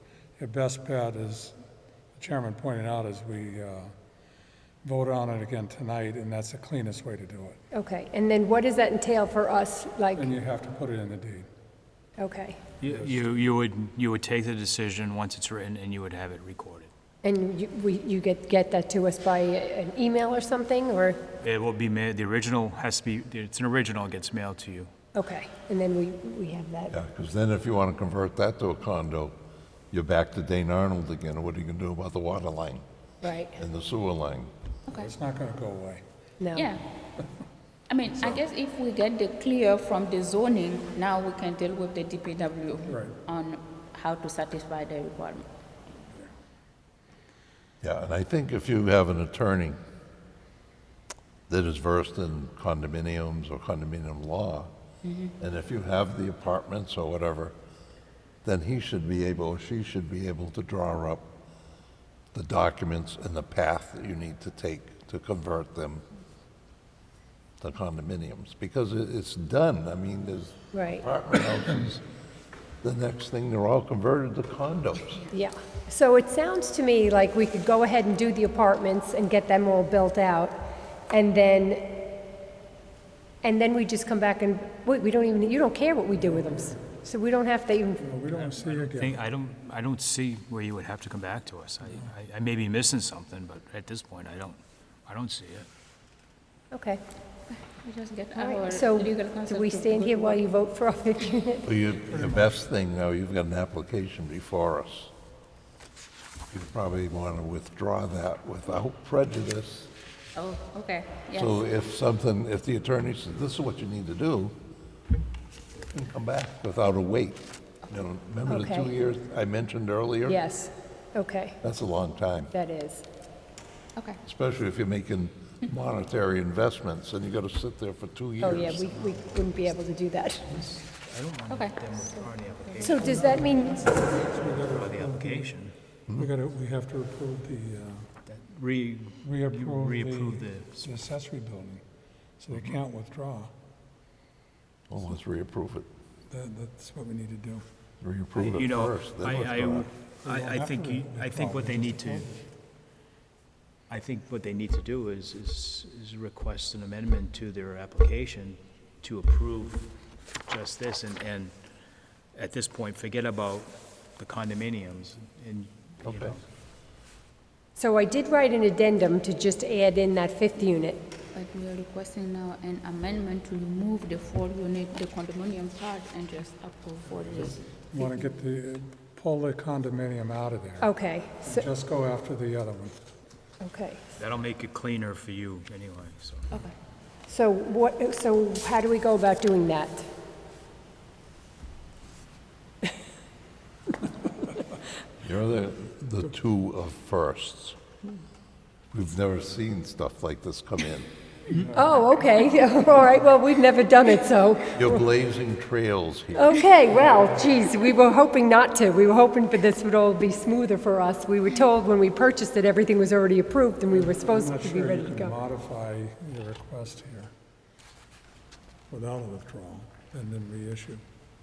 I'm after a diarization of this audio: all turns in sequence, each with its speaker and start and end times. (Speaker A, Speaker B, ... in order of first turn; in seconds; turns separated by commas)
Speaker A: 0.4-1.6, Speaker A: 2.1-3.9, Speaker A: 4.8-7.6, Speaker B: 7.7-10.3, Speaker A: 10.1-11.5, Speaker B: 12.2-12.6, Speaker C: 12.8-16.9, Speaker A: 12.8-13.2, Speaker B: 17.2-21.2, Speaker C: 21.4-24.9, Speaker B: 25.1-26.9, Speaker D: 26.9-29.4, Speaker D: 29.9-32.8, Speaker B: 33.2-33.6, Speaker D: 33.5-34.5, Speaker A: 34.9-36.0, Speaker B: 36.4-36.7, Speaker E: 36.5-36.8, Speaker E: 37.9-45.4, Speaker A: 42.9-43.2, Speaker D: 47.8-49.8, Speaker D: 51.5-54.7, Speaker E: 55.0-55.3, Speaker D: 55.4-57.5, Speaker D: 58.4-61.3, Speaker D: 62.3-66.0, Speaker D: 67.6-72.0, Speaker B: 70.7-71.0, Speaker D: 72.8-75.2, Speaker B: 75.3-80.6, Speaker B: 81.1-81.9, Speaker B: 83.4-88.1, Speaker A: 88.0-89.2, Speaker C: 88.3-95.7, Speaker B: 96.7-97.0, Speaker E: 97.5-100.5, Speaker B: 98.3-101.7, Speaker D: 101.7-105.1, Speaker A: 102.1-102.5, Speaker D: 106.5-109.9, Speaker E: 110.3-111.5, Speaker D: 111.3-114.5, Speaker D: 115.9-120.4, Speaker B: 118.5-118.9, Speaker B: 120.2-121.6, Speaker D: 121.6-122.5, Speaker B: 122.5-123.0, Speaker D: 124.2-129.0, Speaker B: 128.4-130.5, Speaker C: 128.7-129.2, Speaker C: 130.5-133.3, Speaker E: 131.5-131.8, Speaker B: 132.8-133.9, Speaker A: 132.9-135.5, Speaker C: 134.6-135.7, Speaker A: 136.2-138.1, Speaker C: 138.2-140.9, Speaker A: 139.2-141.8, Speaker A: 142.4-143.5, Speaker D: 144.9-145.9, Speaker A: 146.3-147.6, Speaker D: 148.0-149.9, Speaker C: 148.3-152.3, Speaker A: 150.2-152.4, Speaker C: 153.9-159.9, Speaker C: 160.4-161.6, Speaker C: 162.3-166.4, Speaker D: 166.0-166.4, Speaker B: 167.8-171.0, Speaker E: 171.3-178.3, Speaker A: 177.1-182.9, Speaker B: 180.8-181.7, Speaker B: 183.6-184.0, Speaker C: 184.2-186.5, Speaker B: 187.3-190.1, Speaker D: 195.2-197.8, Speaker D: 198.9-201.1, Speaker A: 201.5-202.0, Speaker B: 201.7-205.1, Speaker D: 204.8-206.6, Speaker B: 206.3-215.4, Speaker A: 213.9-217.3, Speaker A: 218.9-221.0